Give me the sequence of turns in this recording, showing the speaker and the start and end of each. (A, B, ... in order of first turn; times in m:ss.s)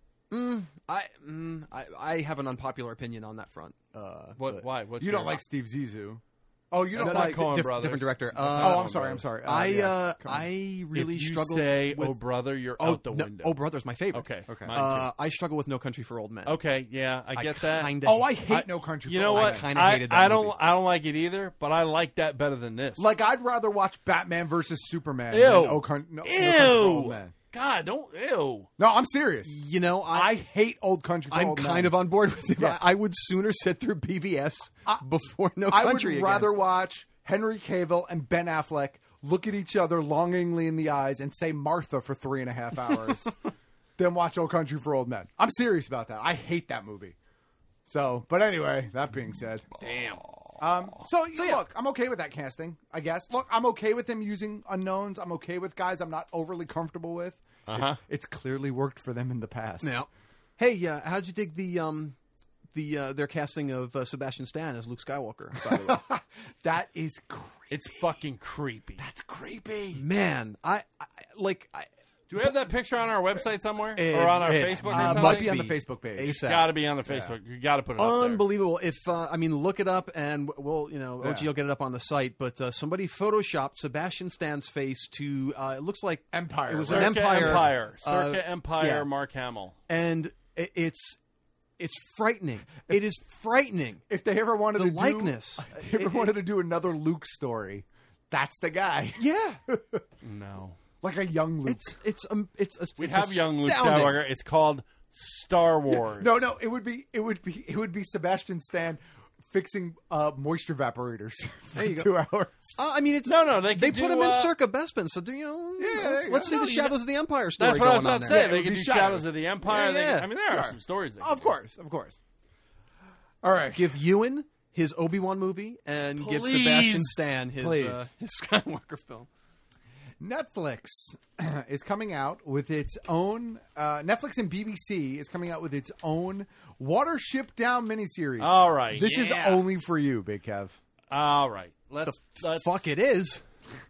0:00.3-0:04.6 A
0:04.4-0:05.4 B
0:05.0-0:07.6 C
0:06.9-0:09.2 B
0:07.0-0:12.2 A
0:08.5-0:10.5 C
0:10.9-0:13.6 B
0:12.8-0:16.6 A
0:14.1-0:15.1 B
0:14.5-0:14.8 C
0:16.4-0:23.1 B
0:17.3-0:18.5 A
0:18.0-0:19.7 C
0:19.3-0:20.6 A
0:23.0-0:27.3 C
0:25.3-0:28.7 B
0:28.8-0:29.6 C
0:29.4-0:30.3 A
0:30.1-0:32.0 C
0:31.3-0:36.6 A
0:32.6-0:32.8 C
0:35.7-0:43.4 C
0:44.0-0:47.2 C
0:47.8-0:49.7 C
0:49.8-0:50.3 A
0:50.6-1:00.0 C
0:51.3-0:51.6 A
0:57.7-0:58.0 B
0:59.8-1:02.2 A
1:02.7-1:06.0 A
1:05.6-1:08.0 C
1:07.7-1:09.0 B
1:09.0-1:10.0 C
1:09.9-1:11.9 A
1:12.3-1:15.5 B
1:14.0-1:16.7 A
1:14.9-1:16.4 C
1:16.4-1:18.4 B
1:17.0-1:17.3 C
1:18.0-1:29.1 A
1:21.2-1:21.5 C
1:26.3-1:27.7 C
1:26.8-1:29.8 B
1:29.9-1:31.2 A
1:31.8-1:34.0 A
1:34.1-1:40.0 C
1:34.7-1:36.3 A
1:39.2-1:39.6 A
1:40.2-1:40.8 B
1:41.0-1:42.0 C
1:41.6-1:44.2 A
1:43.0-1:46.4 B
1:45.9-1:52.8 C
1:51.8-1:52.1 A
1:52.8-1:58.5 A
1:53.2-1:54.5 B
1:55.8-1:56.9 C
1:56.4-1:56.9 B
1:57.6-2:01.5 B
1:58.2-1:59.3 C
1:59.6-2:00.3 A
2:00.4-2:02.2 C
2:03.4-2:04.0 C
2:03.7-2:09.3 A
2:06.2-2:07.3 B
2:07.6-2:08.1 C
2:10.2-2:20.8 C
2:18.4-2:19.6 B
2:21.1-2:22.9 B
2:22.0-2:23.4 A